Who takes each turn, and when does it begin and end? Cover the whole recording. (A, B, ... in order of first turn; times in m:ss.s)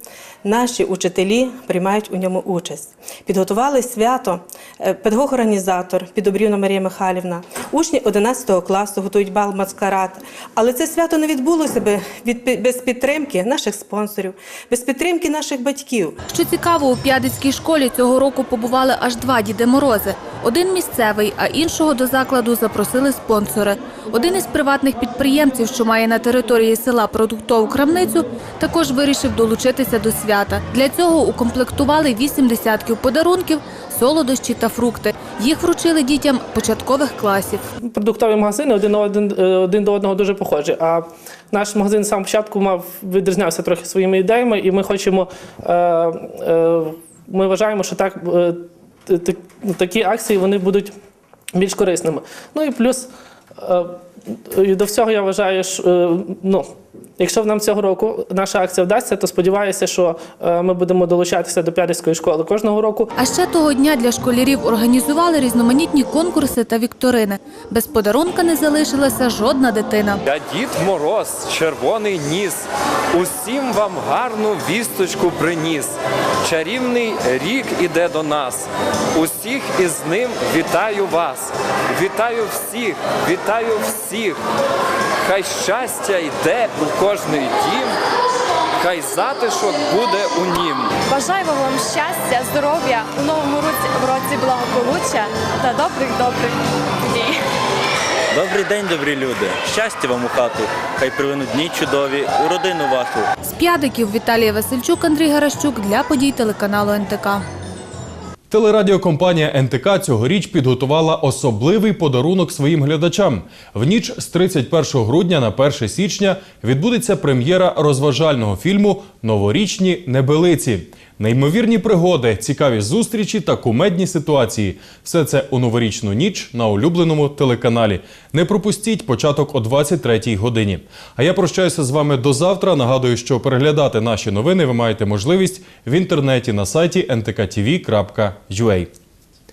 0:00.4-0:16.2 A
0:16.3-0:37.6 B
0:37.9-0:50.9 C
0:51.5-0:53.1 C
0:53.6-1:03.1 C
1:03.2-1:10.2 B
1:10.3-1:15.9 D
1:16.4-1:24.4 D
1:25.2-1:27.9 D
1:28.8-1:31.0 D
1:31.1-1:36.6 E
1:37.1-1:37.4 E
1:38.3-1:43.3 F
1:43.4-1:47.4 B
1:48.5-2:18.9 G